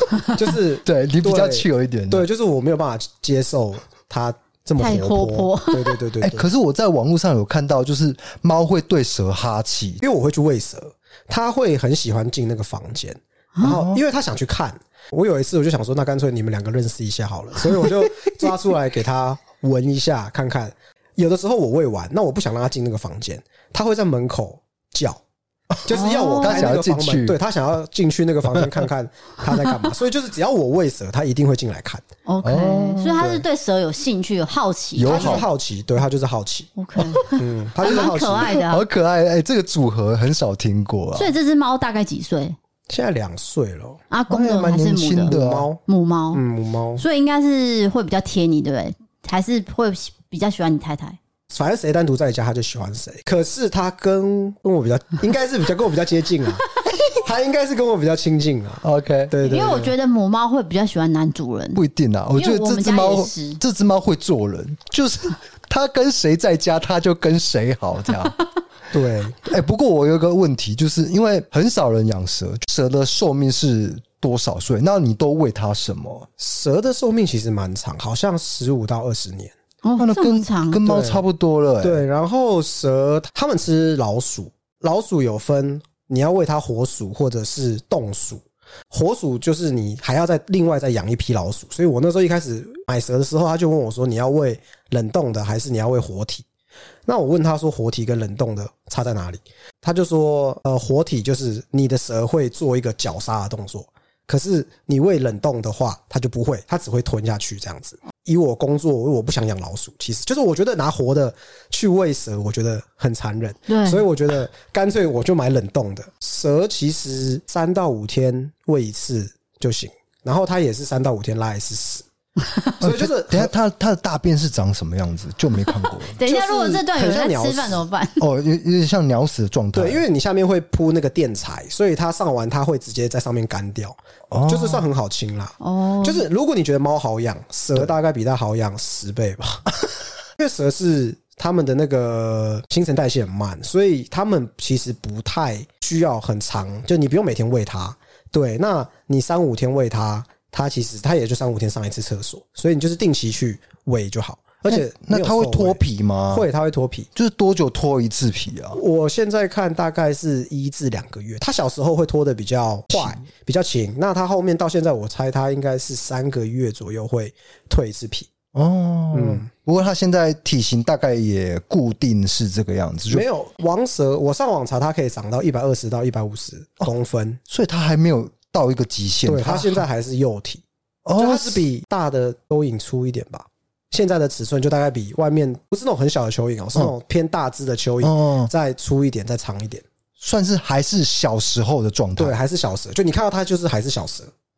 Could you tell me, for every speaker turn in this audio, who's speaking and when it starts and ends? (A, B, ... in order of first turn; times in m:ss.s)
0:00.3-0:06.5 A
0:00.8-0:02.3 B
0:04.8-0:06.0 C
0:06.2-0:10.0 B
0:10.0-0:25.2 A
0:13.6-0:14.0 B
0:25.8-0:32.0 A
0:25.9-0:26.7 C
0:26.4-0:27.4 B
0:28.5-0:28.8 B
0:32.3-0:35.5 C
0:32.4-0:33.2 B
0:33.2-0:33.4 A
0:35.0-0:35.5 B
0:35.1-0:36.7 A
0:36.8-0:38.8 C
0:37.3-0:38.6 A
0:38.5-0:41.3 B
0:41.2-0:42.6 C
0:42.9-0:44.0 A
0:44.1-0:45.4 C
0:44.3-0:45.7 B
0:45.2-0:45.8 A
0:45.9-0:46.4 C
0:46.3-0:47.0 A
0:47.0-0:51.2 C
0:51.5-0:59.9 A
0:58.8-0:59.3 B
0:59.4-1:01.8 C
1:01.8-1:08.4 B
1:02.4-1:03.6 C
1:08.9-1:09.4 A
1:09.4-1:16.3 B
1:16.4-1:19.5 A
1:19.8-1:20.8 C
1:20.0-1:22.0 B
1:20.8-1:21.2 A
1:21.8-1:36.4 A
1:37.1-2:02.0 A
1:53.7-1:54.0 C
2:02.8-2:03.5 A
2:02.8-2:06.2 B
2:06.1-2:08.2 C
2:06.2-2:07.8 A
2:08.2-2:10.0 B
2:09.8-2:14.0 A
2:14.3-2:14.8 B
2:14.5-2:19.7 A
2:15.6-2:16.3 C
2:20.4-2:37.1 A
2:34.7-2:36.5 B
2:37.2-2:38.8 B
2:38.8-2:48.3 A
2:48.6-2:53.2 B
2:49.1-2:49.5 A
2:53.1-2:57.4 A
2:57.5-2:59.8 B
2:59.3-3:00.6 A
3:01.1-3:01.6 B
3:01.2-3:09.8 A
3:08.0-3:08.5 B
3:10.2-3:12.4 B
3:12.2-3:14.3 A